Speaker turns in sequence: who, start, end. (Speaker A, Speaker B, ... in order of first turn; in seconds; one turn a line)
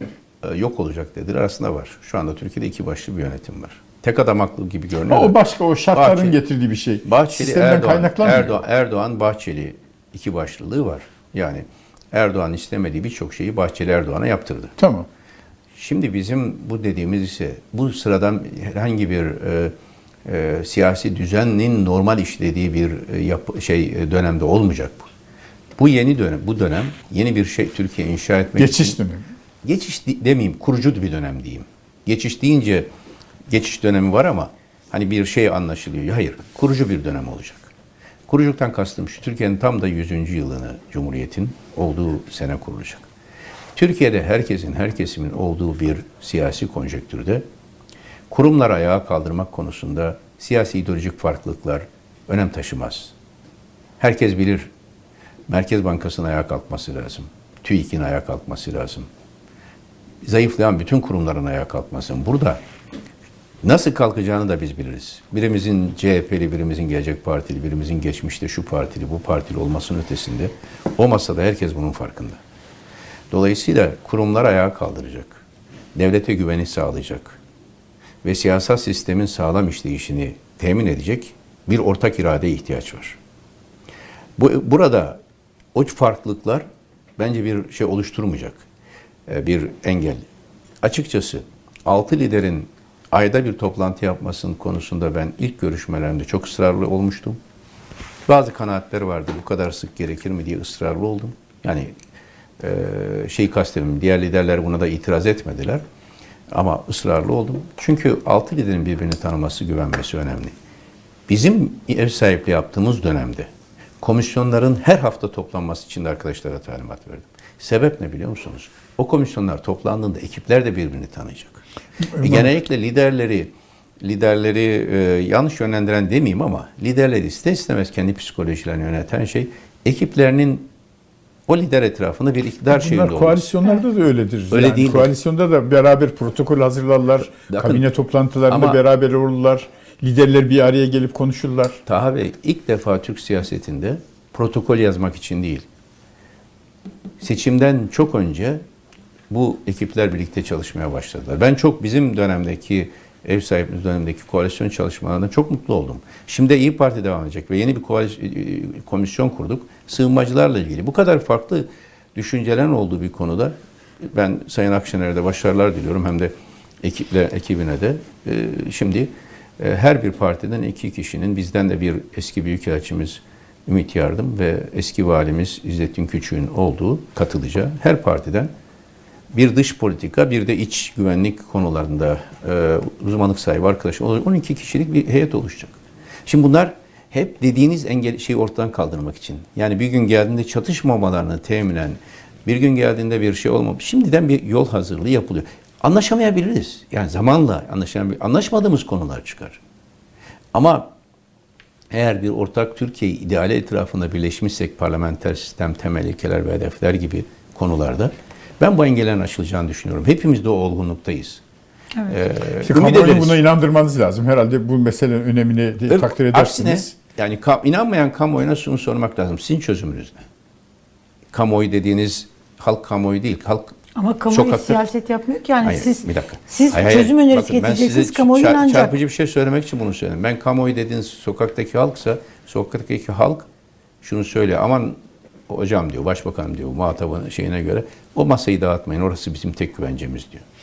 Speaker A: 0.4-5.4
Speaker B: 5.1-8.6
Speaker A: 5.9-6.4
Speaker A: 7.0-14.7
Speaker B: 14.8-15.1
Speaker A: 15.8-19.7
Speaker A: 20.2-25.1
Speaker A: 25.8-29.0
Speaker B: 28.6-29.3
Speaker A: 29.6-32.9
Speaker A: 33.5-37.7
Speaker A: 38.3-43.1
Speaker A: 43.8-47.5
Speaker A: 48.3-53.1
Speaker A: 54.0-54.7
Speaker A: 55.5-59.1
Speaker A: 60.2-62.6
Speaker A: 63.6-72.4
Speaker A: 73.3-75.4
Speaker A: 76.0-77.4
Speaker A: 78.2-83.2
Speaker A: 84.4-85.2
Speaker A: 85.7-86.7
Speaker A: 87.2-88.6
Speaker A: 89.3-90.2
Speaker A: 90.8-97.4
Speaker A: 98.3-101.9
Speaker A: 102.6-105.8
Speaker A: 106.5-110.5
Speaker A: 111.3-113.5
Speaker A: 114.0-121.6
Speaker B: 122.1-122.5
Speaker A: 122.2-130.7
Speaker A: 131.5-133.4
Speaker B: 132.7-141.8
Speaker A: 134.5-135.1
Speaker A: 137.3-137.9
Speaker A: 138.5-138.8
Speaker A: 141.9-145.7
Speaker A: 147.2-148.6
Speaker A: 149.3-178.5
Speaker A: 179.3-199.6
Speaker A: 200.5-200.9
Speaker A: 201.9-211.4
Speaker C: 211.9-212.2
Speaker A: 212.1-213.4
Speaker B: 212.6-216.9
Speaker A: 215.9-220.2
Speaker A: 221.3-223.8
Speaker C: 224.0-228.9
Speaker A: 224.3-224.8
Speaker A: 225.6-233.5
Speaker A: 234.0-235.0
Speaker A: 235.5-240.4